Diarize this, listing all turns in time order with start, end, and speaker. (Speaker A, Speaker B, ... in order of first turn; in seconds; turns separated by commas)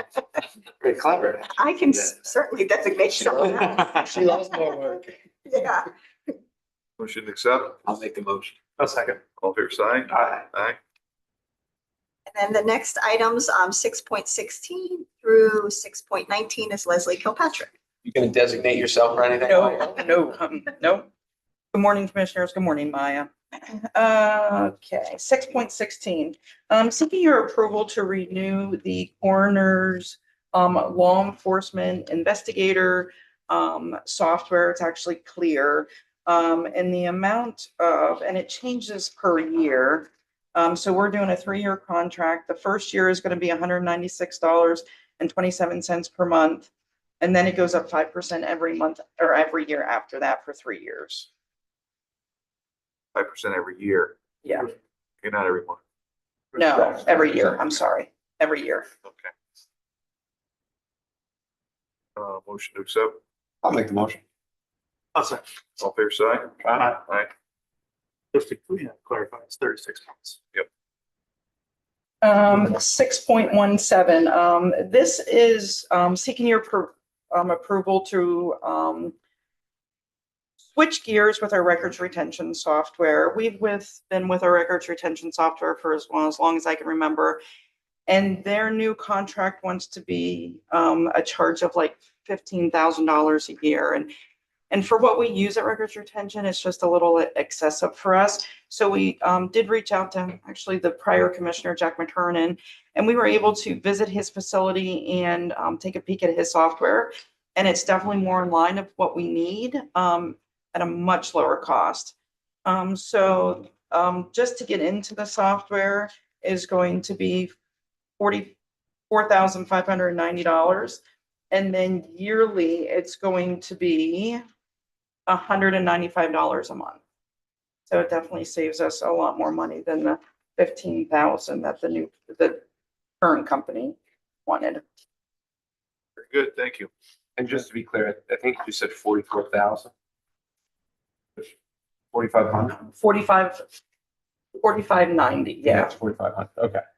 Speaker A: 0.8-2.2, Speaker B: 1.5-5.9, Speaker A: 3.1-4.9, Speaker C: 7.0-7.8, Speaker A: 7.8-8.6, Speaker D: 8.8-9.2, Speaker C: 9.4-10.8, Speaker B: 12.3-17.7, Speaker A: 18.0-19.9, Speaker E: 19.4-21.1, Speaker E: 21.7-51.3, Speaker C: 53.1-54.2, Speaker E: 54.4-54.7, Speaker C: 55.2-55.8, Speaker D: 56.5-57.4, Speaker E: 56.5-58.9, Speaker C: 59.0-59.3, Speaker C: 62.1-63.2, Speaker A: 63.6-64.2, Speaker D: 65.1-65.4, Speaker C: 65.8-67.3, Speaker A: 66.6-66.9, Speaker D: 66.7-67.0, Speaker D: 68.3-70.4, Speaker E: 72.2-79.1, Speaker E: 80.6-87.4, Speaker E: 88.1-94.1, Speaker E: 94.7-117.5, Speaker E: 118.2-118.5, Speaker E: 119.1-124.4, Speaker E: 125.3-127.0, Speaker E: 127.9-132.6, Speaker E: 133.2-134.8, Speaker C: 136.2-136.9, Speaker A: 137.4-139.9, Speaker A: 142.1-142.8, Speaker E: 142.8-143.6, Speaker E: 144.6-145.9, Speaker A: 145.6-146.8